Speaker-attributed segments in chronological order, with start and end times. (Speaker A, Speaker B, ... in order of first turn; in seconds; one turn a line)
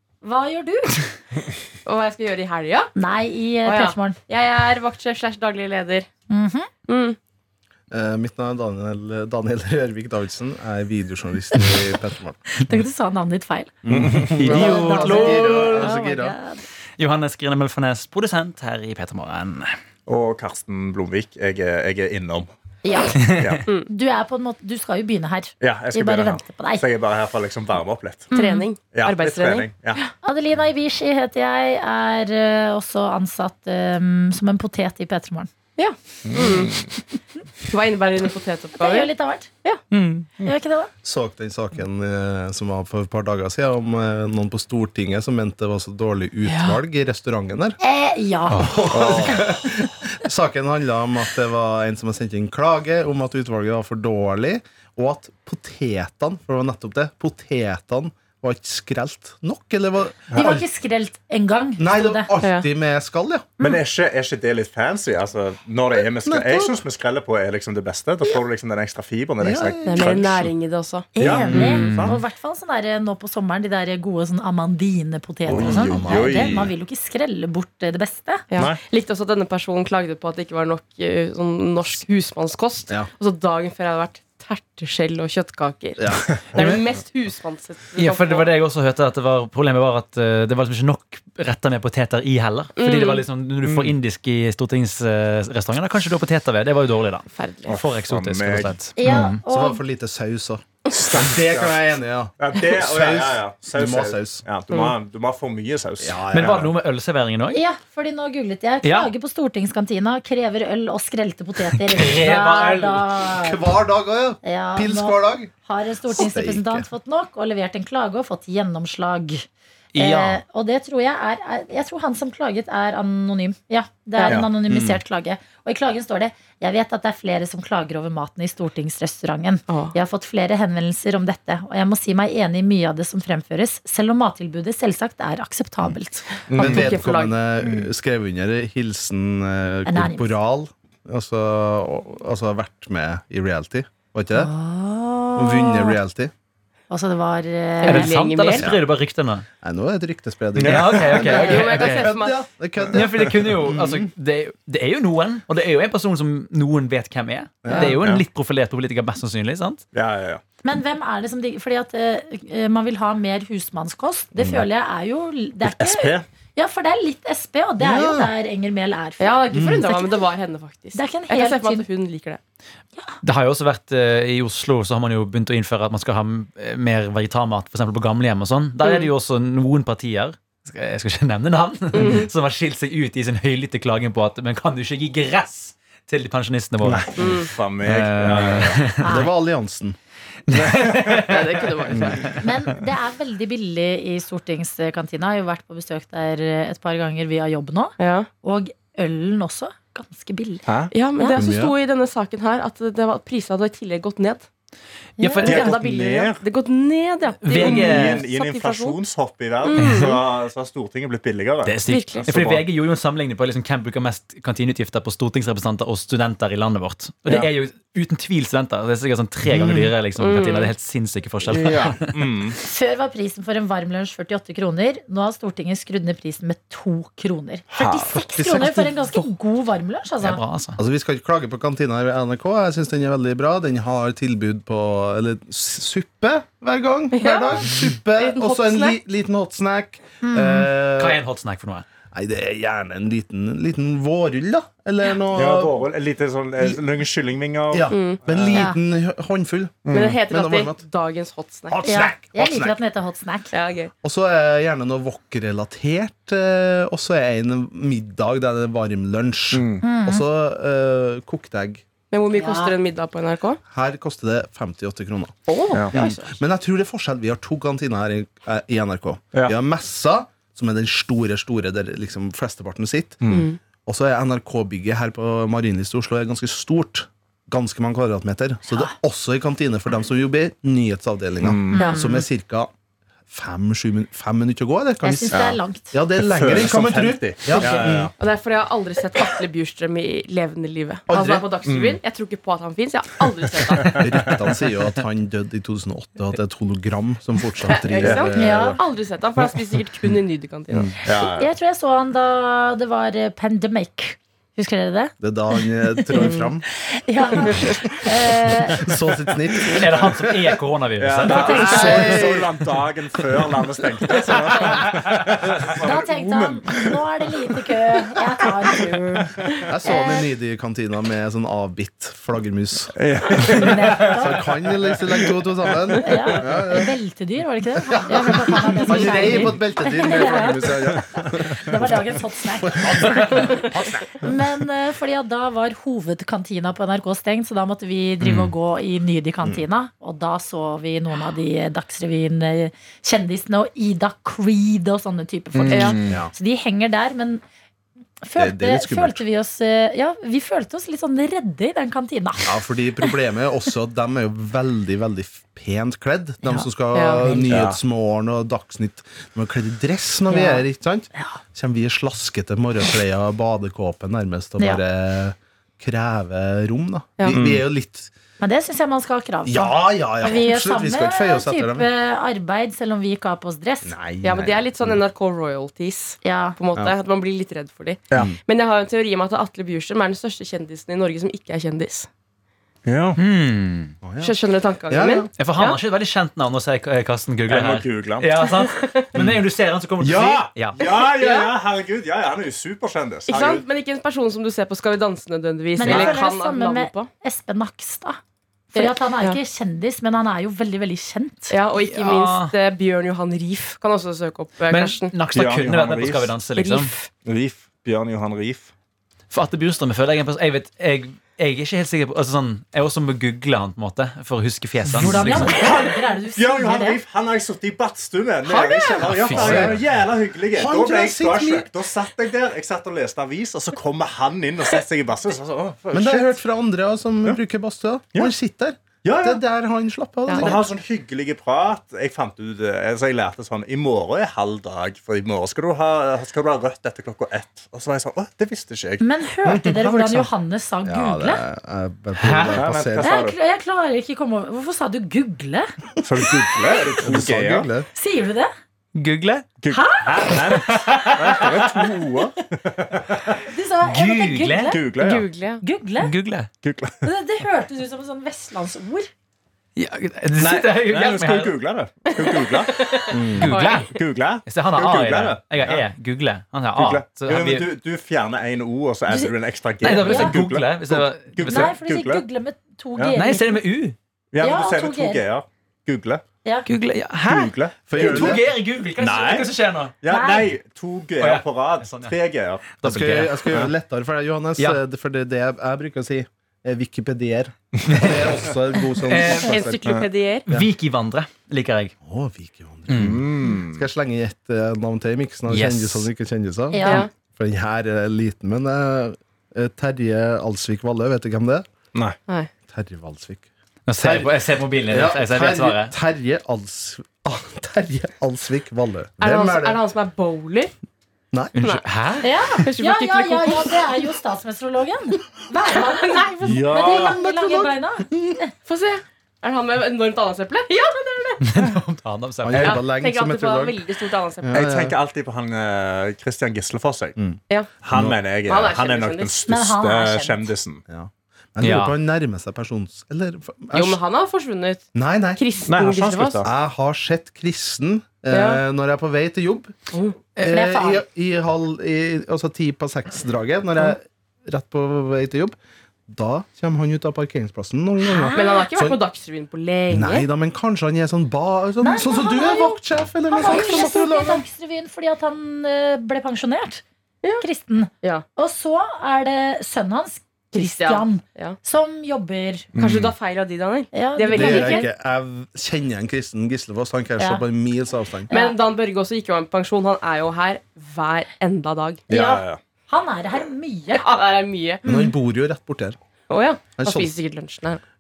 Speaker A: 0.2-1.1
Speaker B: 1.9-2.9
Speaker A: 3.0-4.2
Speaker B: 3.6-6.1
Speaker A: 6.3-6.7
Speaker B: 6.9-7.2
Speaker C: 7.9-12.5
Speaker A: 12.6-13.7
Speaker C: 13.8-16.4
Speaker D: 13.9-14.3
Speaker E: 14.3-15.9
Speaker A: 14.4-16.6
Speaker B: 14.7-15.7
Speaker E: 17.0-19.8
Speaker D: 20.1-22.5
Speaker A: 22.8-26.8
Speaker E: 23.3-23.6
Speaker D: 23.3-23.6
Speaker D: 25.6-28.3
Speaker B: 28.3-30.1
Speaker A: 28.3-28.6
Speaker D: 28.9-30.0
Speaker A: 30.2-35.5
Speaker B: 35.8-36.8
Speaker D: 36.3-36.9
Speaker B: 37.7-39.1
Speaker A: 38.8-39.5
Speaker E: 39.9-40.3
Speaker A: 40.4-40.9
Speaker C: 41.0-47.8
Speaker E: 46.5-46.8
Speaker A: 47.8-49.7
Speaker E: 48.5-48.8
Speaker C: 48.6-60.6
Speaker D: 48.9-49.5
Speaker A: 60.4-62.3
Speaker C: 61.8-63.5
Speaker B: 62.4-62.7
Speaker D: 63.6-70.5
Speaker C: 66.0-66.8
Speaker C: 69.4-70.2
Speaker B: 69.8-72.0
Speaker A: 71.1-78.5
Speaker D: 71.2-72.2
Speaker C: 71.3-71.5
Speaker C: 75.5-76.7
Speaker D: 75.5-76.7
Speaker B: 78.5-88.5
Speaker D: 78.5-78.8
Speaker C: 86.0-86.2
Speaker E: 86.5-86.8
Speaker E: 88.0-99.4
Speaker B: 92.8-93.2
Speaker D: 93.7-93.9
Speaker B: 97.3-97.8
Speaker D: 97.7-98.7
Speaker A: 99.0-99.8
Speaker C: 99.5-104.4
Speaker D: 100.9-101.8
Speaker D: 102.4-106.7
Speaker C: 106.0-106.7
Speaker E: 106.3-107.6
Speaker A: 107.5-113.7
Speaker E: 108.8-109.1
Speaker E: 111.8-113.1
Speaker C: 113.4-115.5
Speaker A: 114.4-136.3
Speaker C: 116.1-116.9
Speaker E: 119.9-120.4
Speaker E: 124.7-125.0
Speaker B: 129.7-129.9
Speaker D: 136.5-137.0
Speaker B: 136.5-137.4
Speaker C: 136.6-144.5
Speaker D: 137.6-137.9
Speaker A: 139.9-140.3
Speaker A: 144.3-146.0
Speaker C: 145.4-146.3
Speaker A: 146.9-148.2
Speaker B: 147.8-148.7
Speaker E: 147.8-149.5
Speaker C: 148.6-148.9
Speaker C: 149.6-153.9
Speaker D: 150.6-151.4
Speaker E: 150.6-152.1
Speaker B: 151.2-152.4
Speaker E: 152.9-159.8
Speaker C: 157.6-157.9
Speaker D: 157.8-158.2
Speaker D: 159.9-160.4
Speaker A: 160.6-169.4
Speaker C: 164.4-164.6
Speaker D: 165.6-166.2
Speaker C: 167.8-168.3
Speaker B: 169.2-172.4
Speaker C: 169.5-169.9
Speaker A: 169.9-170.2
Speaker A: 170.9-171.9
Speaker E: 173.2-189.1
Speaker B: 181.9-182.3
Speaker D: 186.9-188.9
Speaker B: 187.2-187.5
Speaker A: 189.0-189.3
Speaker C: 189.0-190.0
Speaker E: 190.5-192.6
Speaker D: 190.7-191.1
Speaker B: 191.2-192.4
Speaker C: 191.9-192.2
Speaker A: 192.3-200.6
Speaker B: 198.0-198.3
Speaker D: 200.7-200.9
Speaker B: 200.9-204.5
Speaker C: 201.4-201.7
Speaker A: 205.2-205.5
Speaker E: 205.2-205.7
Speaker B: 205.4-209.0
Speaker D: 205.4-206.4
Speaker E: 207.4-208.2
Speaker D: 207.5-212.6
Speaker B: 209.6-210.2
Speaker E: 209.8-210.2
Speaker E: 211.6-222.2
Speaker B: 211.9-212.3
Speaker C: 219.5-219.9
Speaker B: 220.2-220.7
Speaker D: 221.5-222.6
Speaker A: 222.6-230.4
Speaker C: 227.7-229.2
Speaker E: 230.2-230.8
Speaker C: 230.8-241.2
Speaker B: 237.1-239.0
Speaker A: 240.2-240.7
Speaker E: 241.0-241.8
Speaker C: 242.1-245.9
Speaker D: 245.3-248.7
Speaker C: 247.7-250.8
Speaker B: 247.9-248.2
Speaker D: 249.9-250.2
Speaker B: 249.9-252.1
Speaker C: 251.7-252.8
Speaker A: 251.8-253.5
Speaker B: 253.5-253.9
Speaker C: 254.0-261.9
Speaker D: 259.5-259.9
Speaker A: 259.8-260.2
Speaker B: 262.1-263.6
Speaker A: 262.3-262.7
Speaker C: 263.7-273.2
Speaker B: 265.5-266.4
Speaker D: 273.2-273.5
Speaker B: 273.3-273.6
Speaker C: 273.9-282.7
Speaker D: 281.4-281.9
Speaker A: 281.7-282.2
Speaker C: 283.3-288.1
Speaker A: 285.0-285.9
Speaker D: 285.3-285.6
Speaker D: 286.2-288.1
Speaker A: 287.5-287.8
Speaker B: 288.2-294.0
Speaker C: 291.1-291.5
Speaker D: 291.7-292.0
Speaker D: 293.9-294.3
Speaker C: 294.0-298.8
Speaker B: 297.6-301.0
Speaker D: 298.0-298.4
Speaker A: 298.4-298.8
Speaker D: 300.7-301.5
Speaker A: 301.3-308.9
Speaker C: 305.2-306.7
Speaker B: 306.2-306.5
Speaker B: 307.5-307.7
Speaker C: 307.5-310.6
Speaker E: 309.7-312.1
Speaker D: 311.0-316.9
Speaker A: 311.3-312.2
Speaker C: 311.4-312.6
Speaker A: 315.8-319.0
Speaker B: 318.7-319.7
Speaker C: 319.7-326.9
Speaker A: 319.8-320.3
Speaker D: 323.0-325.3
Speaker A: 323.4-324.5
Speaker A: 326.0-347.4
Speaker C: 327.8-334.5
Speaker B: 328.9-329.5
Speaker E: 338.2-338.5
Speaker D: 345.6-346.2
Speaker B: 345.7-346.0
Speaker C: 346.1-346.3
Speaker A: 348.2-353.1
Speaker C: 348.4-349.2
Speaker C: 352.4-368.1
Speaker B: 356.9-357.4
Speaker D: 357.5-357.8
Speaker D: 367.3-367.6
Speaker A: 368.4-374.0
Speaker C: 369.4-371.9
Speaker C: 373.8-375.0
Speaker B: 374.2-382.1
Speaker A: 376.2-376.6
Speaker D: 382.9-383.2
Speaker E: 383.2-383.9
Speaker C: 384.0-384.4
Speaker B: 384.2-385.8
Speaker C: 384.9-385.3
Speaker E: 385.4-390.8
Speaker D: 387.5-388.3
Speaker B: 388.5-389.1
Speaker D: 390.0-393.7
Speaker B: 390.8-391.5
Speaker B: 393.3-397.1
Speaker A: 395.8-398.2
Speaker D: 395.8-396.1
Speaker A: 398.7-401.6
Speaker B: 398.7-399.4
Speaker B: 401.5-405.1
Speaker E: 401.8-402.5
Speaker E: 404.7-406.9
Speaker D: 405.3-406.4
Speaker B: 406.6-407.1
Speaker D: 407.2-408.7
Speaker E: 409.3-415.8
Speaker A: 414.9-417.0
Speaker D: 415.5-426.4
Speaker B: 418.5-419.7
Speaker E: 419.1-419.8
Speaker C: 419.3-419.8
Speaker C: 420.5-421.7
Speaker C: 425.9-430.7
Speaker D: 429.0-429.4
Speaker B: 430.3-430.6
Speaker D: 430.3-439.1
Speaker A: 439.0-441.4
Speaker C: 439.4-440.3
Speaker C: 440.9-443.1
Speaker E: 442.2-442.7
Speaker D: 442.5-443.4
Speaker A: 443.0-445.7
Speaker D: 446.0-447.7
Speaker A: 446.4-446.9
Speaker C: 447.0-447.9
Speaker A: 447.9-448.5
Speaker E: 448.9-449.5
Speaker D: 449.6-453.4
Speaker A: 449.7-450.6
Speaker E: 450.5-451.9
Speaker A: 453.5-454.8
Speaker E: 453.9-454.8
Speaker D: 454.7-455.3
Speaker B: 455.0-455.6
Speaker A: 455.6-456.1
Speaker E: 456.0-456.5
Speaker D: 456.6-457.0
Speaker A: 457.0-459.1
Speaker E: 459.8-461.6
Speaker D: 460.4-462.9
Speaker B: 462.1-463.9
Speaker C: 463.1-463.5
Speaker E: 463.4-467.7
Speaker D: 463.9-465.9
Speaker D: 466.8-472.2
Speaker A: 469.1-469.3
Speaker E: 469.8-471.7
Speaker A: 469.8-470.4
Speaker A: 471.5-473.6
Speaker E: 473.2-474.0
Speaker D: 474.3-476.2
Speaker A: 474.4-475.2
Speaker E: 476.7-479.9
Speaker D: 477.2-478.5
Speaker C: 477.9-478.4
Speaker D: 479.0-482.7
Speaker A: 480.1-480.5
Speaker E: 481.2-482.2
Speaker E: 482.7-483.6
Speaker C: 482.8-489.9
Speaker E: 487.9-489.7
Speaker B: 489.4-490.5
Speaker E: 490.5-491.9
Speaker C: 492.1-501.7
Speaker E: 492.9-493.3
Speaker D: 492.9-493.9
Speaker E: 495.5-496.1
Speaker A: 496.7-497.1
Speaker B: 496.8-497.1
Speaker C: 502.7-509.8
Speaker E: 503.9-505.9
Speaker B: 509.2-510.7
Speaker E: 511.6-512.3
Speaker B: 511.6-513.9
Speaker A: 512.2-518.5
Speaker B: 515.7-516.4
Speaker D: 516.4-517.2
Speaker C: 516.5-518.4
Speaker B: 518.7-521.5
Speaker E: 521.4-522.9
Speaker C: 522.5-523.8
Speaker B: 522.6-524.7
Speaker C: 524.4-525.0
Speaker D: 524.5-527.2
Speaker D: 527.8-530.8
Speaker B: 528.4-529.4
Speaker A: 529.5-530.5
Speaker C: 530.9-534.0
Speaker E: 531.6-532.0
Speaker B: 533.7-536.5
Speaker C: 535.0-535.4
Speaker D: 535.6-536.5
Speaker C: 536.4-539.8
Speaker B: 538.3-538.6
Speaker B: 539.9-540.2
Speaker C: 540.4-545.6
Speaker A: 540.4-541.0
Speaker C: 546.1-549.0
Speaker A: 548.1-548.6
Speaker B: 548.3-550.3
Speaker C: 549.9-554.4
Speaker A: 551.8-552.8
Speaker A: 553.3-556.8
Speaker B: 553.5-553.9
Speaker A: 557.4-562.7
Speaker B: 560.5-561.6
Speaker D: 562.8-563.1
Speaker B: 562.8-564.9
Speaker A: 563.9-564.9
Speaker C: 564.3-568.3
Speaker B: 568.3-572.0
Speaker A: 568.3-568.6
Speaker D: 572.1-572.6
Speaker A: 572.1-574.1
Speaker B: 573.9-574.9
Speaker C: 574.9-576.0
Speaker A: 574.9-575.1
Speaker B: 576.3-577.8
Speaker C: 576.8-577.1